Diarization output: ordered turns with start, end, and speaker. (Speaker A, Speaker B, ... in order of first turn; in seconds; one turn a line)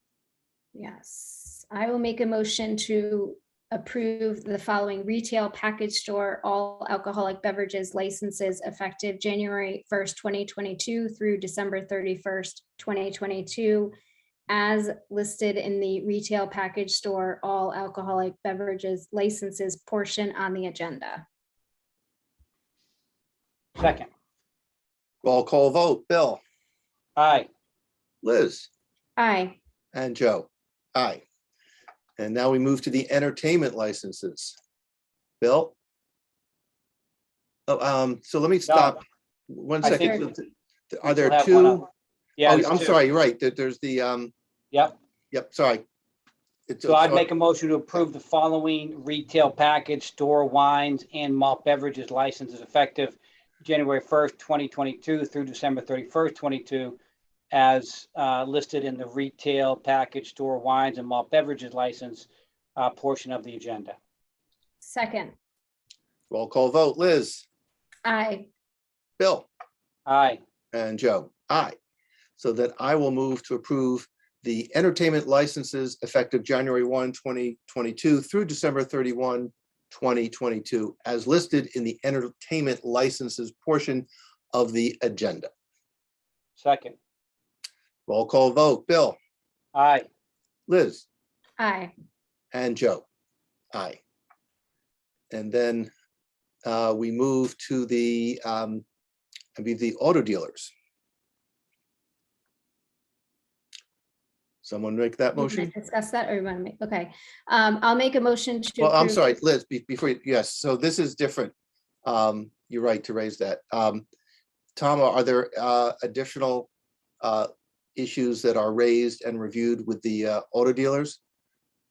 Speaker A: 0.7-13.9
Speaker A: 14.5-21.2
Speaker B: 23.8-24.1
Speaker C: 25.2-26.4
Speaker B: 27.2-27.5
Speaker C: 28.2-28.7
Speaker A: 29.2-29.6
Speaker C: 29.9-31.2
Speaker C: 32.2-34.5
Speaker C: 35.4-35.7
Speaker C: 37.7-41.9
Speaker B: 38.7-39.0
Speaker B: 39.8-40.2
Speaker A: 39.9-40.2
Speaker B: 41.0-41.9
Speaker B: 42.4-43.0
Speaker C: 42.4-44.3
Speaker C: 45.3-45.8
Speaker C: 46.7-47.3
Speaker B: 46.8-57.0
Speaker B: 57.5-64.0
Speaker A: 64.8-65.3
Speaker C: 66.3-67.5
Speaker A: 68.0-68.5
Speaker C: 69.2-69.5
Speaker B: 70.0-70.4
Speaker C: 70.7-71.8
Speaker C: 72.4-85.5
Speaker B: 86.6-87.0
Speaker C: 88.1-89.2
Speaker B: 89.7-90.1
Speaker C: 90.7-91.0
Speaker A: 91.6-91.9
Speaker C: 92.5-93.0
Speaker C: 93.7-94.0
Speaker C: 95.3-95.9
Speaker C: 96.6-98.8
Speaker C: 99.5-100.7
Speaker C: 104.6-105.7
Speaker A: 105.3-109.3
Speaker C: 108.8-111.5
Speaker C: 112.0-114.0
Speaker C: 114.8-116.7
Speaker C: 117.2-121.2